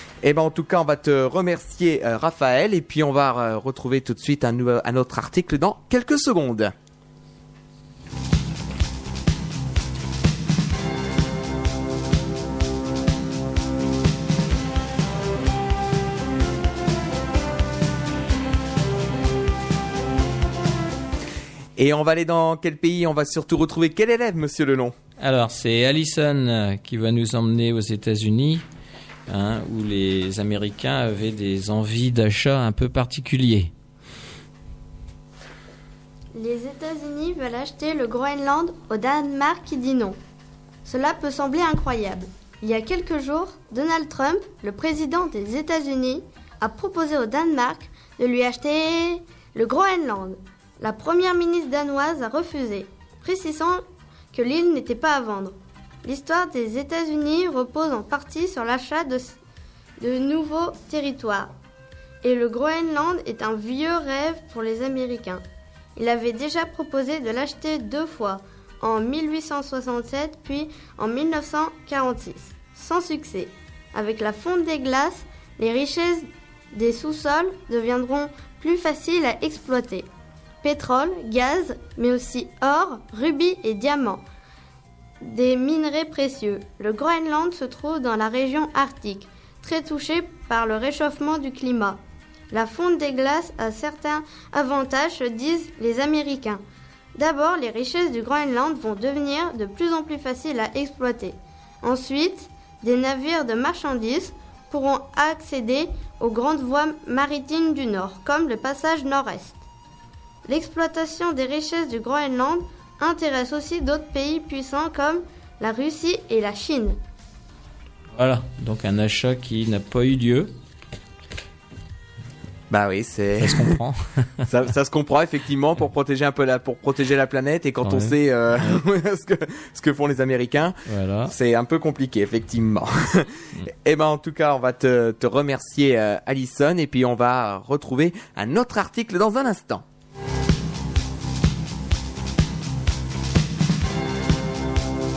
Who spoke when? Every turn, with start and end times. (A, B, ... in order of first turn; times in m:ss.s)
0:00.2-0:06.7 A
0:21.8-0:24.9 A
0:25.2-0:28.6 B
0:29.3-0:33.7 B
0:36.3-0:40.2 C
0:40.8-0:59.4 C
1:00.0-1:01.5 C
1:02.2-1:05.4 C
1:06.0-1:20.1 C
1:20.6-1:24.2 C
1:25.2-1:36.6 C
1:37.1-1:49.6 C
1:50.5-1:57.0 C
1:58.2-2:00.5 B
2:02.7-2:03.8 A
2:03.4-2:04.3 B
2:04.5-2:19.8 A
2:07.8-2:08.8 B
2:10.8-2:11.3 B